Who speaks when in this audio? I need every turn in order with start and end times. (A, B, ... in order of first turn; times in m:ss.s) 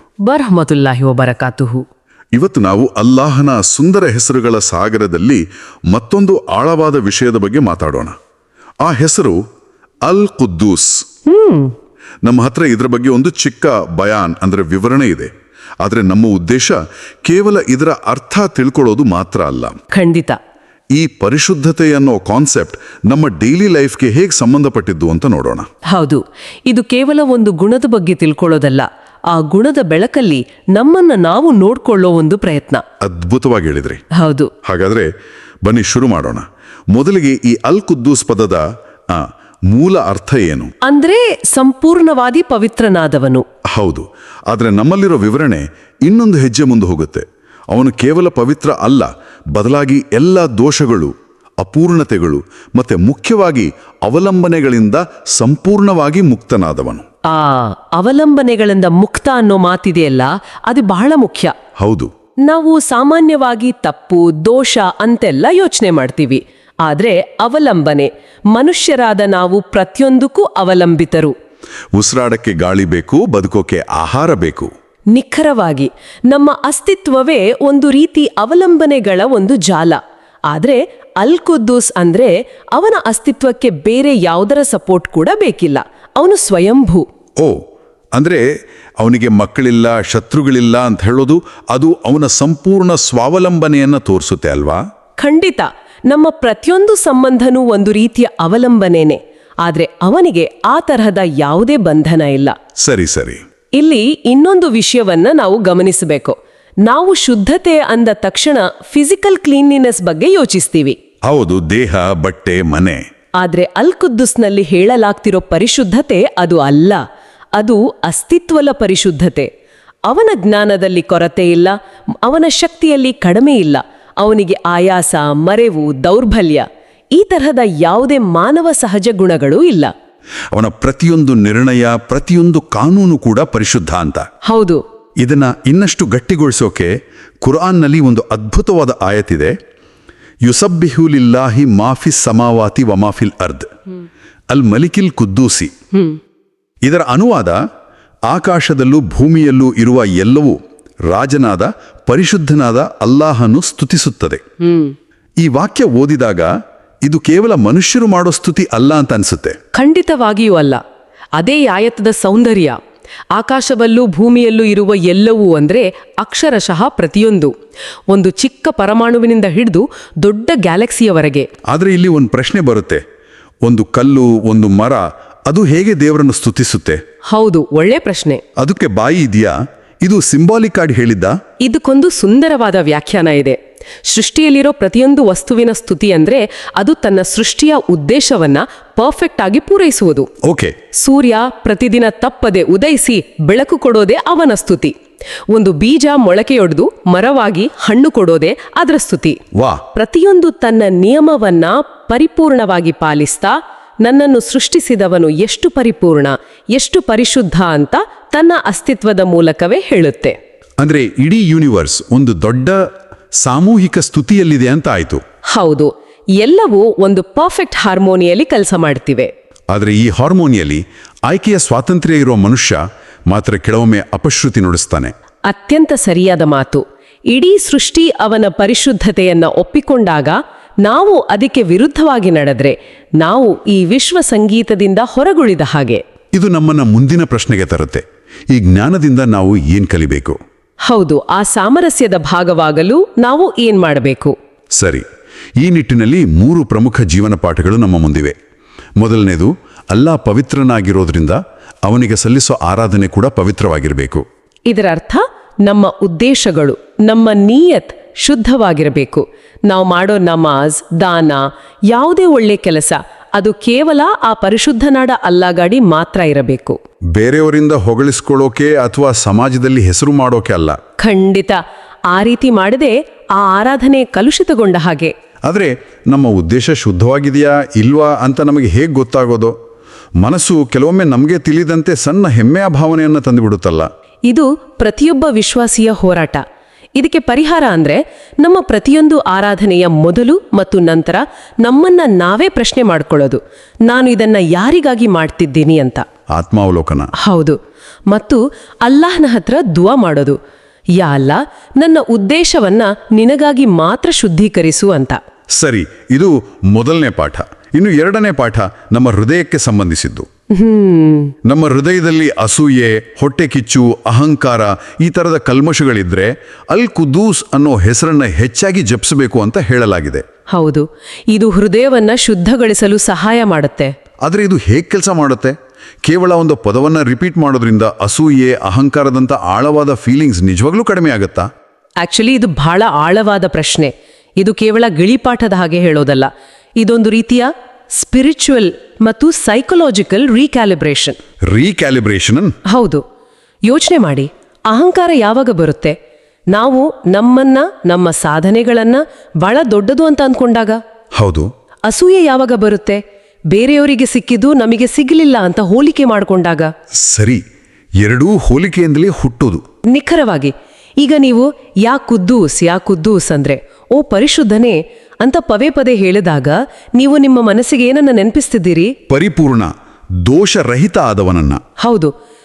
0:00.2-0:01.8 A
0:02.3-0:08.1 B
0:08.8-0:09.4 B
0:10.0-0:11.0 B
0:11.2-0:11.7 A
0:12.2-0:19.8 B
0:19.9-0:20.4 A
0:20.9-0:25.7 B
0:25.9-0:32.8 A
0:33.0-0:34.0 B
0:34.1-0:34.5 A
0:34.6-0:35.1 B
0:35.6-0:40.7 B
0:40.8-0:43.4 A
0:43.7-0:57.0 B
0:57.3-1:01.5 A
1:01.8-1:02.1 B
1:02.4-1:11.3 A
1:11.9-1:14.7 B
1:15.1-1:20.0 A
1:20.5-1:27.0 A
1:28.1-1:28.5 B
1:29.0-1:34.8 B
1:35.2-1:42.5 A
1:42.8-1:43.4 B
1:43.7-1:51.0 A
1:51.2-1:53.0 B
1:53.4-1:57.0 A
1:57.6-1:59.5 A
2:00.1-2:09.9 A
2:10.5-2:14.3 B
2:14.5-2:14.8 A
2:15.2-2:19.5 B
2:20.4-2:23.7 B
2:24.5-2:25.7 B
2:25.9-2:26.2 A
2:26.8-2:27.6 B
2:28.3-2:34.4 B
2:34.6-2:34.9 A
2:35.4-2:36.5 B
2:37.0-2:39.6 B
2:39.7-2:40.8 A
2:41.4-2:42.8 A
2:43.3-2:47.5 A
2:48.1-2:51.5 A
2:51.7-2:53.0 B
2:53.6-2:57.0 B
2:57.3-2:58.4 A
2:58.6-3:01.4 B
3:01.6-3:10.3 A
3:10.4-3:10.8 B
3:10.9-3:14.9 A
3:15.5-3:19.4 A
3:19.6-3:19.8 B
3:19.9-3:30.4 A
3:30.8-3:32.8 B
3:33.4-3:35.2 B
3:35.5-3:39.3 A
3:39.7-3:42.8 B
3:43.3-3:45.1 B
3:45.5-3:56.0 A
3:56.3-4:00.4 B
4:00.9-4:04.3 A
4:04.7-4:05.0 B
4:05.6-4:08.3 B
4:09.0-4:14.2 B
4:14.7-4:26.8 A
4:27.1-4:30.8 B
4:31.0-4:31.6 A
4:32.1-4:35.1 A
4:35.4-4:39.5 B
4:40.2-4:43.9 B
4:44.3-4:46.4 A
4:47.0-4:56.0 A
4:56.3-4:57.1 B
4:57.2-4:57.6 A
4:58.1-5:00.4 A
5:01.0-5:05.2 A
5:05.6-5:10.3 B
5:10.5-5:11.3 A
5:11.4-5:20.2 B
5:20.5-5:23.9 A
5:24.2-5:25.5 B
5:26.0-5:31.5 B
5:32.0-5:36.3 A
5:36.8-5:41.2 A
5:41.5-5:42.5 B
5:42.7-5:43.0 A
5:43.6-5:45.9 A
5:46.5-5:50.8 A
5:51.2-5:51.5 B
5:51.9-5:53.0 A
5:53.5-5:56.7 A
5:57.0-5:57.4 B
5:58.0-5:59.6 B
5:59.9-6:08.9 A
6:09.1-6:09.7 B
6:10.2-6:11.6 B
6:11.8-6:12.1 A